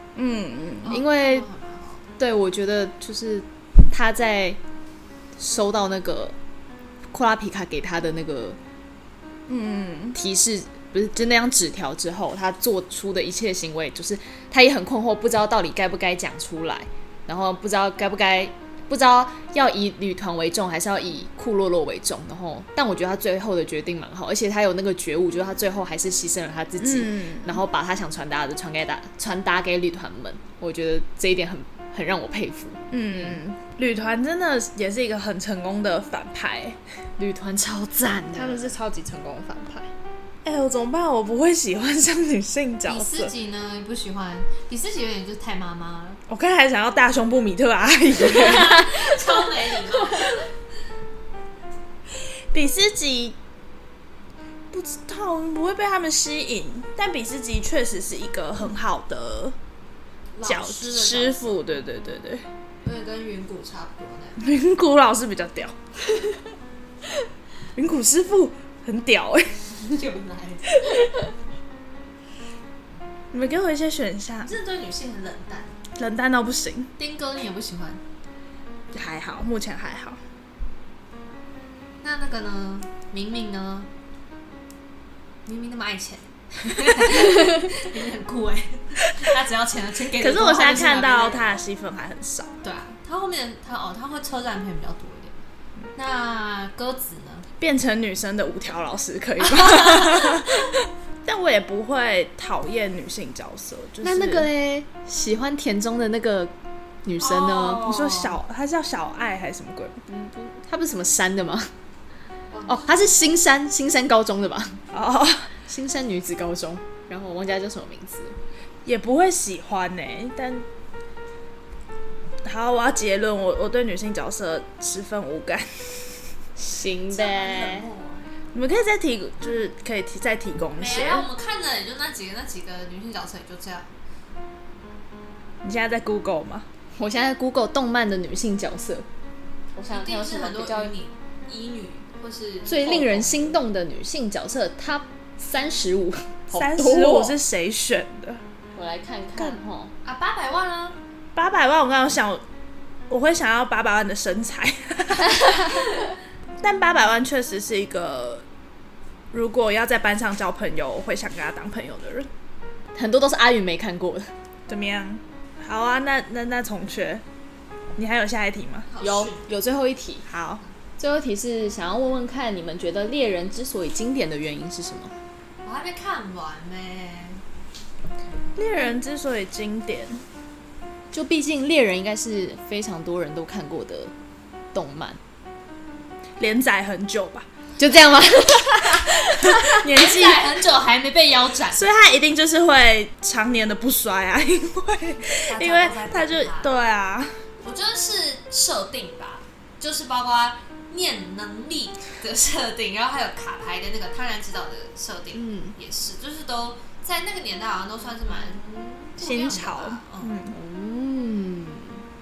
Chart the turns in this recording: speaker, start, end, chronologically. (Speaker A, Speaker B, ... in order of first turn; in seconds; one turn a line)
Speaker A: 0.1-1.0
Speaker B: 0.8-2.1
Speaker C: 0.9-1.5
Speaker C: 2.2-4.6
Speaker C: 5.4-6.3
Speaker C: 7.1-8.6
Speaker A: 9.5-10.2
Speaker C: 10.1-33.4
Speaker A: 26.8-27.6
Speaker A: 32.9-36.8
Speaker C: 37.2-38.8
Speaker A: 38.3-39.9
Speaker A: 40.4-43.3
Speaker B: 42.9-46.2
Speaker A: 46.3-49.2
Speaker B: 48.1-50.5
Speaker A: 52.5-53.4
Speaker A: 54.7-59.5
Speaker B: 60.3-61.6
Speaker A: 60.4-62.5
Speaker B: 62.8-64.4
Speaker A: 64.4-65.7
Speaker A: 67.7-69.7
Speaker B: 69.8-71.0
Speaker A: 70.8-71.0
Speaker A: 73.3-74.5
Speaker B: 74.4-75.7
Speaker A: 76.0-76.9
Speaker B: 77.0-78.0
Speaker A: 78.9-80.2
Speaker B: 82.0-83.9
Speaker B: 85.5-91.6
Speaker A: 90.1-92.5
Speaker B: 92.6-95.3
Speaker B: 96.0-97.5
Speaker A: 97.6-104.5
Speaker B: 99.4-100.7
Speaker C: 104.0-106.5
Speaker C: 107.0-107.8
Speaker B: 107.2-108.4
Speaker A: 107.8-110.0
Speaker C: 110.1-111.7
Speaker B: 112.5-113.1
Speaker C: 112.7-114.8
Speaker A: 114.9-115.5
Speaker C: 115.7-118.4
Speaker A: 118.8-120.7
Speaker A: 122.4-126.2
Speaker C: 126.6-127.9
Speaker B: 127.1-128.2
Speaker A: 128.5-131.3
Speaker B: 130.8-133.9
Speaker A: 135.6-136.7
Speaker C: 137.0-139.1
Speaker C: 139.8-140.9
Speaker B: 139.9-143.6
Speaker C: 142.7-147.4
Speaker A: 146.5-148.4
Speaker C: 148.8-149.9
Speaker B: 150.0-151.0
Speaker A: 151.3-152.4
Speaker A: 153.1-156.0
Speaker A: 156.6-158.4
Speaker A: 159.3-162.3
Speaker C: 162.9-164.3
Speaker A: 164.7-167.2
Speaker A: 167.9-168.9
Speaker B: 168.9-169.4
Speaker C: 169.0-170.2
Speaker A: 170.3-170.6
Speaker C: 171.0-175.1
Speaker B: 175.6-177.4
Speaker A: 178.6-180.2
Speaker C: 181.1-184.1
Speaker C: 184.7-185.2
Speaker A: 186.4-187.5
Speaker C: 187.8-189.2
Speaker A: 189.0-190.5
Speaker B: 189.2-191.9
Speaker A: 191.7-197.3
Speaker B: 195.4-196.7
Speaker B: 197.6-210.4
Speaker C: 205.3-205.8
Speaker A: 209.2-210.5
Speaker C: 210.5-212.0